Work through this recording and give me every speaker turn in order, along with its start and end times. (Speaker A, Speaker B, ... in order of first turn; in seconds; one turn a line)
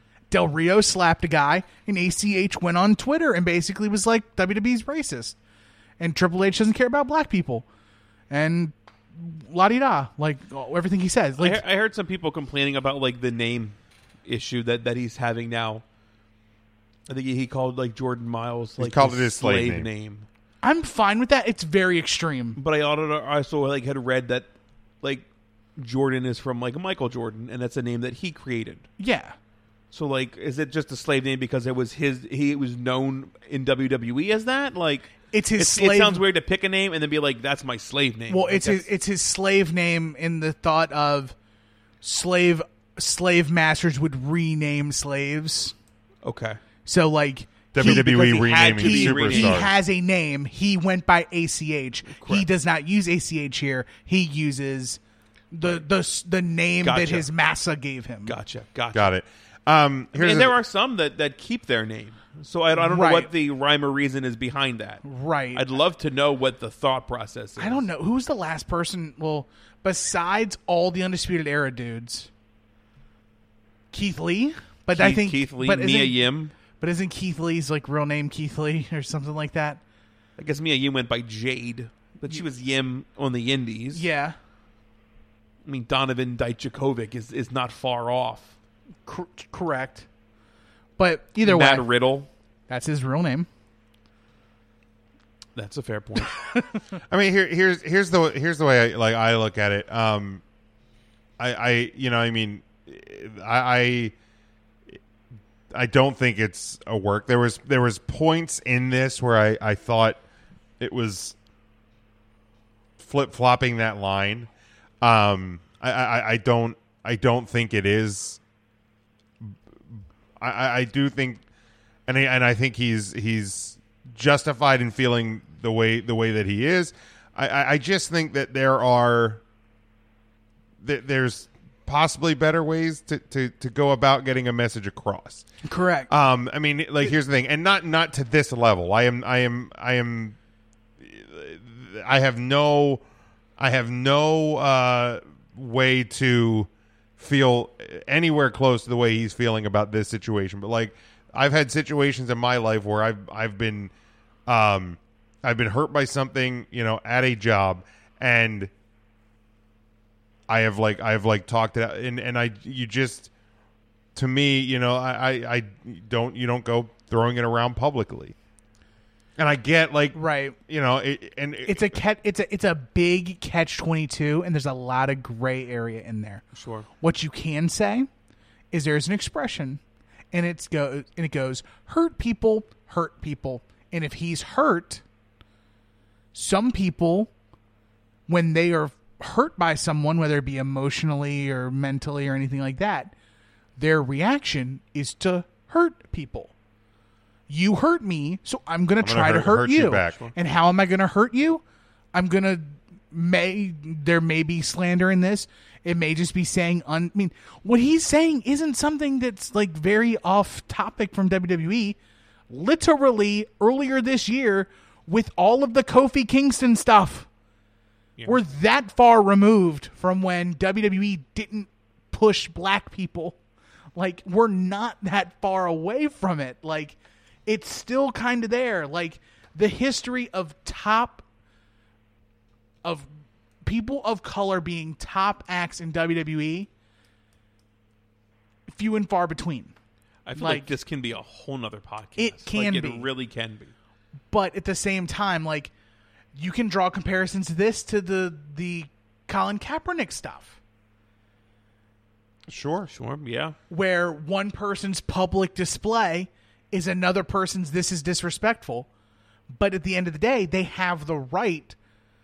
Speaker A: 0.3-5.3
Speaker A: 6.0-7.6
Speaker A: 8.3-11.6
Speaker B: 11.4-15.8
Speaker B: 17.1-20.3
Speaker C: 18.8-19.9
Speaker A: 20.6-22.6
Speaker B: 22.6-24.5
Speaker B: 25.8-28.9
Speaker A: 29.0-29.3
Speaker B: 29.9-38.9
Speaker A: 35.3-36.2
Speaker A: 38.3-41.3
Speaker A: 42.0-45.7
Speaker B: 46.2-46.6
Speaker A: 46.8-55.0
Speaker C: 47.7-49.7
Speaker B: 47.8-49.7
Speaker B: 52.1-52.5
Speaker A: 55.5-58.3
Speaker B: 56.8-57.3
Speaker B: 58.3-59.1
Speaker C: 58.9-60.6
Speaker B: 60.1-67.8
Speaker A: 62.7-63.3
Speaker A: 65.0-65.6
Speaker A: 67.6-72.3
Speaker A: 73.9-76.2
Speaker B: 74.9-76.5
Speaker A: 76.8-79.8
Speaker B: 80.4-84.0
Speaker A: 83.9-84.3
Speaker B: 85.6-88.5
Speaker A: 89.0-90.0
Speaker A: 91.0-91.9
Speaker B: 91.4-92.3
Speaker A: 92.7-93.5
Speaker B: 95.5-96.4
Speaker C: 97.1-100.4
Speaker C: 101.4-104.1
Speaker C: 105.7-110.2
Speaker C: 110.8-111.3
Speaker C: 113.0-114.5
Speaker C: 115.0-118.4
Speaker C: 119.4-121.4
Speaker C: 122.1-129.4
Speaker C: 130.8-135.4
Speaker A: 135.6-136.1
Speaker C: 136.1-140.4
Speaker C: 141.0-143.0
Speaker C: 143.6-153.9
Speaker C: 154.5-158.7
Speaker C: 160.5-163.3
Speaker C: 164.1-168.3
Speaker C: 169.4-172.0
Speaker A: 170.1-170.6
Speaker A: 171.7-176.4
Speaker B: 176.5-176.9
Speaker A: 177.0-178.1
Speaker A: 178.7-179.8
Speaker A: 180.3-185.0
Speaker A: 186.3-187.3
Speaker A: 188.3-193.1
Speaker A: 193.8-196.5
Speaker A: 197.5-201.6
Speaker C: 199.0-200.3
Speaker A: 202.1-212.0
Speaker A: 212.5-217.3
Speaker A: 218.3-223.4
Speaker A: 223.9-231.2
Speaker A: 233.6-236.7
Speaker A: 238.7-239.7
Speaker B: 240.2-243.7
Speaker A: 240.4-240.7
Speaker A: 242.2-243.1
Speaker A: 244.3-245.7
Speaker A: 246.3-250.6
Speaker C: 252.5-252.9
Speaker B: 252.9-253.6
Speaker A: 253.7-258.9
Speaker A: 259.5-261.7